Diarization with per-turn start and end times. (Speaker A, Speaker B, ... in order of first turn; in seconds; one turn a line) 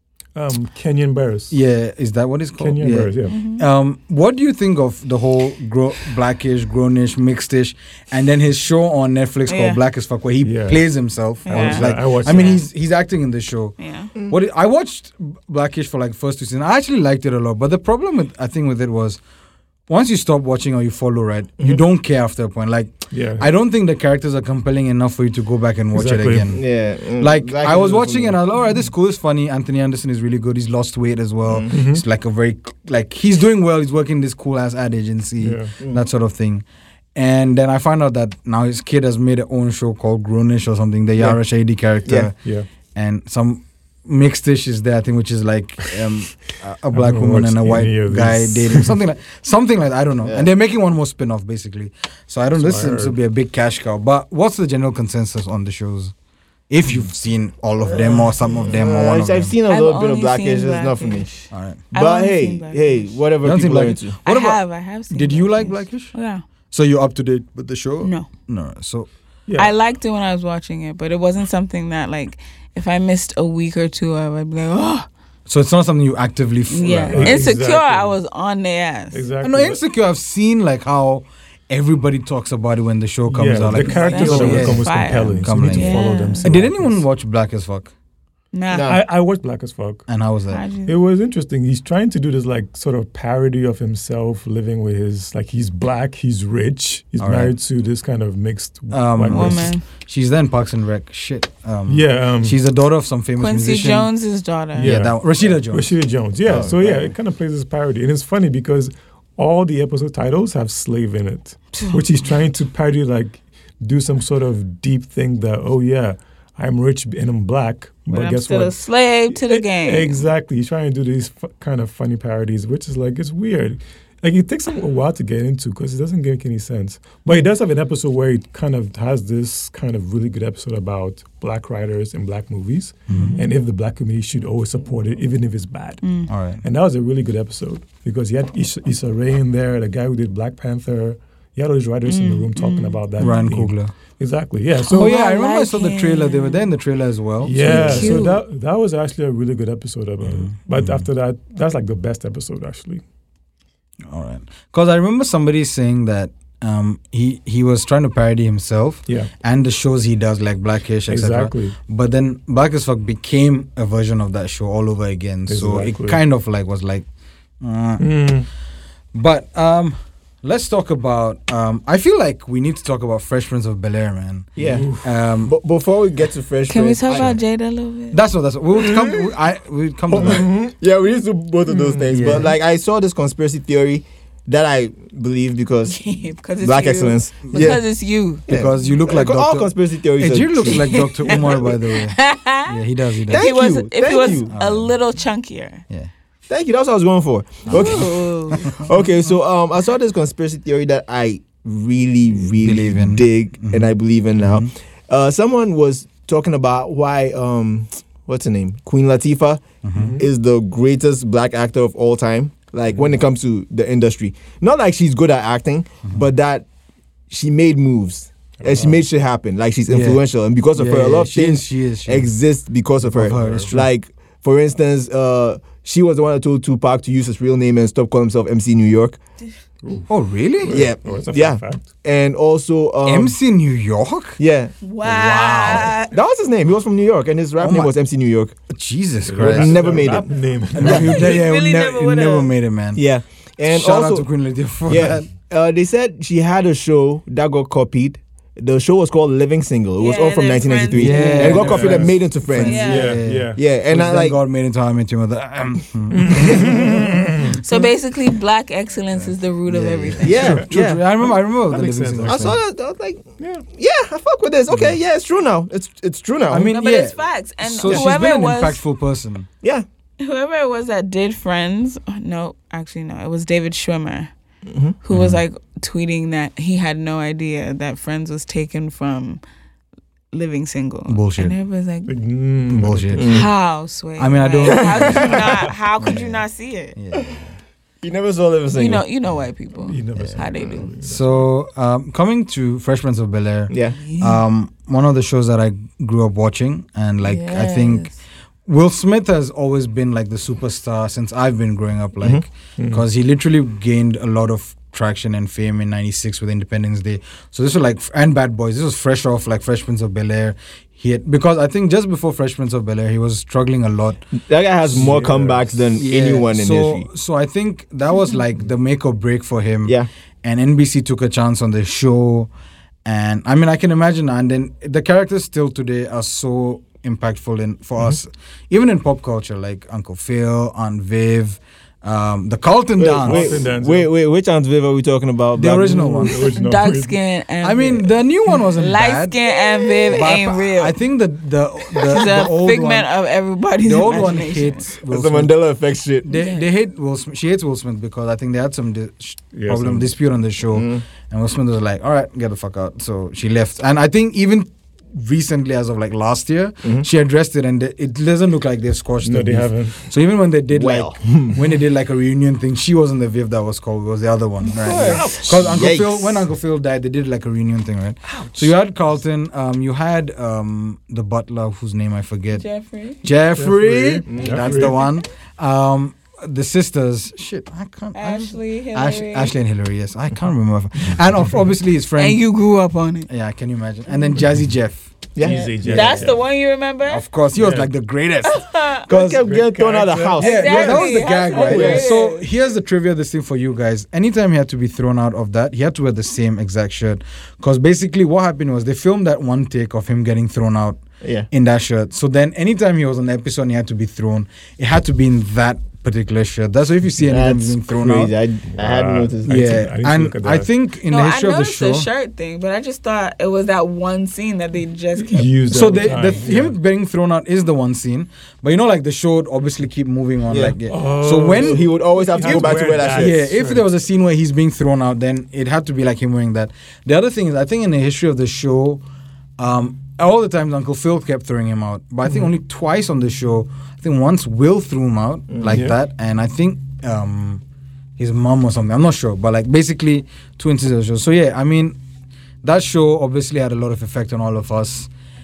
Speaker A: 0.3-1.6
Speaker B: 1.5-19.2
Speaker A: 2.6-3.4
Speaker C: 3.3-3.6
Speaker C: 9.5-9.8
Speaker A: 10.4-10.9
Speaker C: 11.5-12.6
Speaker A: 11.5-12.6
Speaker C: 13.8-14.1
Speaker B: 19.9-26.7
Speaker A: 23.1-23.5
Speaker A: 25.9-26.6
Speaker D: 26.6-28.4
Speaker B: 27.2-42.3
Speaker D: 31.5-31.7
Speaker A: 31.7-32.0
Speaker A: 35.4-35.7
Speaker D: 35.8-36.0
Speaker A: 42.4-42.7
Speaker B: 43.0-56.1
Speaker A: 46.9-49.0
Speaker D: 50.2-50.5
Speaker A: 52.6-53.2
Speaker B: 56.7-59.5
Speaker A: 57.9-58.6
Speaker D: 58.5-61.3
Speaker C: 59.7-63.1
Speaker B: 61.5-61.8
Speaker D: 61.9-64.2
Speaker B: 63.4-64.6
Speaker C: 64.2-66.4
Speaker B: 65.1-66.1
Speaker B: 66.7-69.1
Speaker C: 68.0-68.3
Speaker A: 69.5-69.7
Speaker C: 69.6-75.1
Speaker B: 75.5-77.5
Speaker C: 76.7-79.2
Speaker A: 76.8-78.2
Speaker A: 79.1-79.8
Speaker B: 79.4-87.9
Speaker A: 83.3-87.0
Speaker C: 83.7-86.5
Speaker C: 88.5-88.9
Speaker D: 88.7-89.0
Speaker A: 88.9-90.1
Speaker B: 90.1-90.7
Speaker C: 90.5-90.9
Speaker A: 90.9-99.7
Speaker B: 97.2-97.5
Speaker B: 98.9-104.1
Speaker C: 99.3-99.8
Speaker A: 101.9-102.6
Speaker C: 103.4-104.9
Speaker A: 104.8-118.8
Speaker B: 104.8-105.9
Speaker D: 106.5-107.1
Speaker C: 111.7-112.0
Speaker C: 118.1-120.3
Speaker A: 119.3-136.0
Speaker B: 133.1-133.4
Speaker C: 136.0-136.3
Speaker B: 136.3-136.6
Speaker A: 136.6-145.1
Speaker C: 142.1-143.3
Speaker B: 143.2-143.9
Speaker C: 144.8-146.7
Speaker B: 144.9-148.2
Speaker A: 147.4-153.0
Speaker C: 147.6-148.4
Speaker B: 150.2-151.0
Speaker B: 154.1-167.1
Speaker A: 161.1-161.8
Speaker A: 165.5-166.2
Speaker B: 167.6-168.1
Speaker A: 168.0-168.5
Speaker B: 169.1-175.6
Speaker D: 174.6-174.9
Speaker A: 174.7-175.1
Speaker D: 175.4-177.3
Speaker C: 176.7-178.2
Speaker B: 178.1-180.5
Speaker A: 178.8-179.3
Speaker A: 180.1-180.7
Speaker D: 180.1-186.0
Speaker A: 181.7-182.4
Speaker B: 182.1-182.5
Speaker C: 185.9-188.4
Speaker D: 186.6-187.8
Speaker B: 187.5-187.8
Speaker D: 188.5-191.4
Speaker B: 188.5-193.6
Speaker C: 190.9-192.8
Speaker C: 193.3-195.8
Speaker D: 193.3-194.5
Speaker B: 194.5-194.9
Speaker D: 196.5-209.6
Speaker C: 197.7-198.7
Speaker B: 197.7-198.9
Speaker B: 202.6-204.7
Speaker B: 209.8-210.2
Speaker A: 210.0-210.2
Speaker D: 210.2-216.7
Speaker D: 217.3-229.2
Speaker A: 218.6-219.0
Speaker B: 219.9-220.2
Speaker B: 220.8-222.3
Speaker A: 223.0-223.8
Speaker B: 223.1-223.8
Speaker A: 229.8-230.1
Speaker B: 230.1-230.9
Speaker A: 230.6-231.9
Speaker D: 230.7-233.4
Speaker B: 233.1-234.4
Speaker D: 234.4-234.7
Speaker C: 234.8-236.1
Speaker B: 235.0-236.0
Speaker D: 235.9-238.5
Speaker B: 237.6-237.9
Speaker B: 238.7-240.2
Speaker A: 239.3-241.4
Speaker D: 239.4-241.2
Speaker B: 240.7-243.0
Speaker C: 240.8-242.5
Speaker D: 243.0-244.3
Speaker B: 243.7-245.3
Speaker D: 244.9-254.4
Speaker C: 250.0-251.7
Speaker B: 250.9-257.9
Speaker A: 251.4-253.6
Speaker C: 252.7-253.2
Speaker A: 256.1-257.6
Speaker C: 257.6-260.6
Speaker B: 259.7-262.6
Speaker D: 260.2-261.0
Speaker A: 260.3-260.7
Speaker A: 261.2-262.6
Speaker D: 262.2-266.7
Speaker A: 263.4-263.6
Speaker B: 264.7-265.0
Speaker B: 266.5-269.5
Speaker C: 266.7-268.8
Speaker C: 270.2-274.3
Speaker D: 274.7-275.0
Speaker C: 275.0-279.4
Speaker B: 275.1-275.4
Speaker C: 280.3-282.1
Speaker B: 281.1-281.6
Speaker A: 282.1-283.4
Speaker B: 282.7-283.4
Speaker D: 283.1-283.5
Speaker C: 283.2-286.9
Speaker B: 284.2-285.5
Speaker D: 284.6-285.5
Speaker A: 285.2-285.7
Speaker B: 286.0-286.4
Speaker B: 286.9-287.6
Speaker D: 288.0-289.0
Speaker C: 288.7-290.9
Speaker A: 289.9-291.5
Speaker B: 291.0-298.1
Speaker D: 293.7-294.0
Speaker C: 294.1-294.4
Speaker C: 297.2-298.2
Speaker B: 298.7-314.2
Speaker A: 302.8-303.0
Speaker D: 314.5-317.1
Speaker A: 314.9-315.8
Speaker B: 316.0-322.5
Speaker B: 323.1-333.6
Speaker D: 333.0-336.3
Speaker A: 333.2-334.1
Speaker B: 335.6-336.5
Speaker A: 335.9-337.2
Speaker C: 336.4-341.0
Speaker B: 337.6-339.4
Speaker B: 340.1-343.1
Speaker C: 341.9-344.8
Speaker B: 343.8-345.5
Speaker D: 345.1-346.3
Speaker B: 346.2-372.6
Speaker C: 346.3-346.7
Speaker A: 349.5-350.1
Speaker D: 350.7-351.0
Speaker A: 359.2-360.0
Speaker D: 360.7-361.6
Speaker C: 364.8-365.2
Speaker D: 364.8-366.4
Speaker C: 372.6-373.2
Speaker B: 373.2-382.4
Speaker A: 373.6-375.1
Speaker D: 374.3-374.8
Speaker C: 378.1-379.5
Speaker C: 382.2-383.3
Speaker B: 383.3-385.1
Speaker D: 385.4-385.7
Speaker A: 385.4-386.4
Speaker C: 385.4-387.2
Speaker B: 385.8-386.3
Speaker B: 387.1-389.4
Speaker A: 387.5-387.9
Speaker C: 388.4-389.1
Speaker D: 389.1-392.1
Speaker A: 389.1-391.1
Speaker C: 390.4-392.5
Speaker B: 390.4-408.3
Speaker A: 391.6-391.9
Speaker D: 401.2-401.5
Speaker D: 407.2-409.6
Speaker A: 408.7-410.7
Speaker B: 409.4-412.1
Speaker C: 411.1-416.3
Speaker A: 415.2-416.8
Speaker B: 415.7-421.9
Speaker D: 420.5-420.8
Speaker A: 420.9-423.9
Speaker D: 421.4-423.4
Speaker B: 422.4-429.0
Speaker B: 429.6-437.6
Speaker D: 435.5-435.8
Speaker A: 435.7-436.0
Speaker B: 438.2-442.0
Speaker B: 442.6-445.1